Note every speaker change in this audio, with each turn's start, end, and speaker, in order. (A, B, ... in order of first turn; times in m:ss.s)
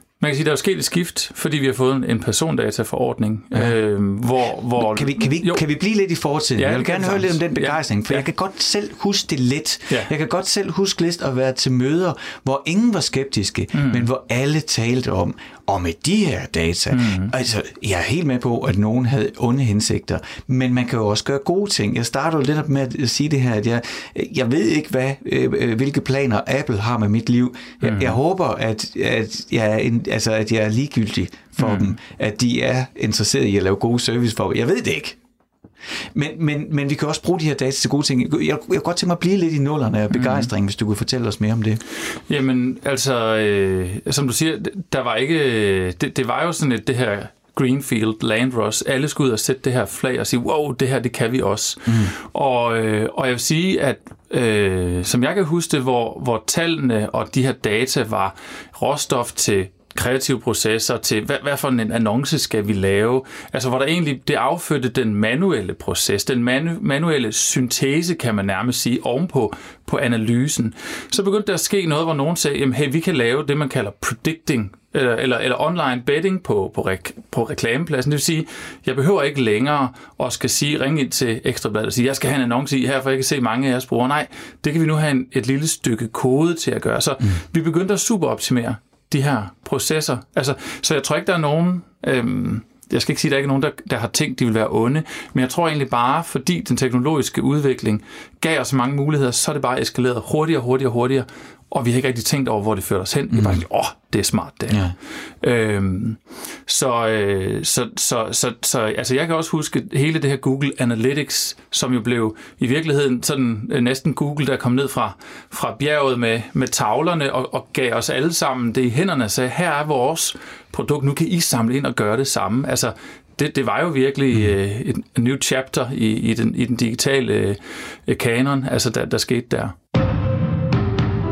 0:00.2-0:05.6 A
0:04.8-0:35.2 B
0:06.6-0:08.2 A
0:13.7-0:14.1 A
0:16.9-0:17.3 A
0:27.8-0:28.2 A
0:31.6-0:32.0 A
0:36.1-0:41.8 B
0:40.1-0:40.5 A
0:42.3-1:44.8 A
1:43.3-1:43.6 B
1:44.7-1:44.9 B
1:45.4-2:09.8 A